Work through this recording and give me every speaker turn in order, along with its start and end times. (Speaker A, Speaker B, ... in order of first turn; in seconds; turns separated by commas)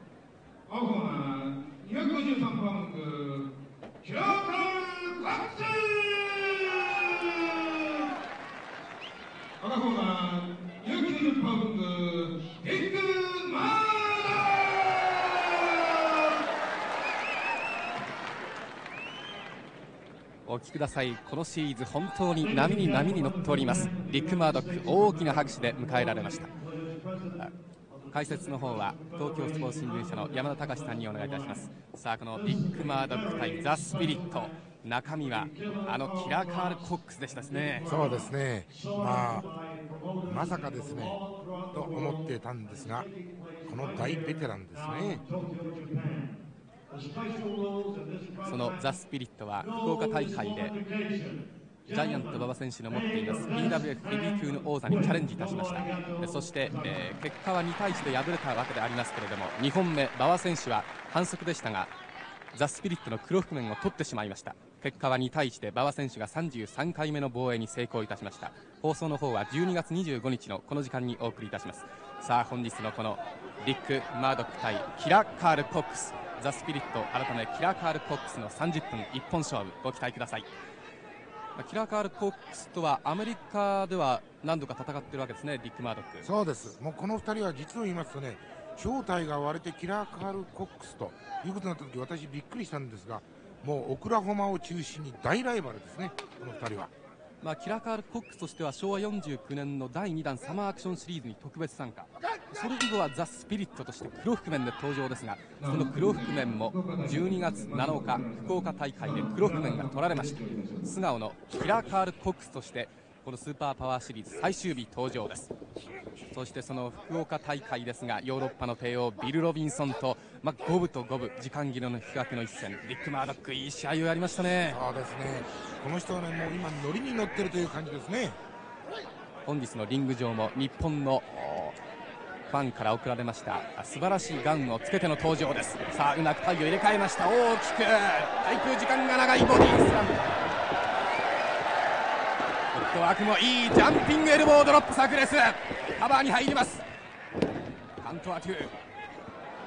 Speaker A: 0.7-8.1, Speaker A: 9.6-16.4, Speaker B: 20.4-26.6, Speaker B: 27.2-27.5, Speaker B: 28.1-38.0, Speaker C: 37.9-39.6, Speaker C: 40.2-43.1, Speaker C: 43.6-45.3, Speaker B: 48.4-50.8, Speaker B: 51.9-61.9, Speaker B: 62.5-80.5, Speaker B: 81.6-86.3, Speaker C: 86.2-96.9, Speaker B: 97.4-115.5, Speaker A: 105.6-110.9, Speaker B: 116.3-124.8, Speaker C: 124.7-128.4, Speaker B: 129.4-131.8, Speaker B: 132.5-140.3, Speaker B: 142.7-146.8, Speaker B: 148.0-148.7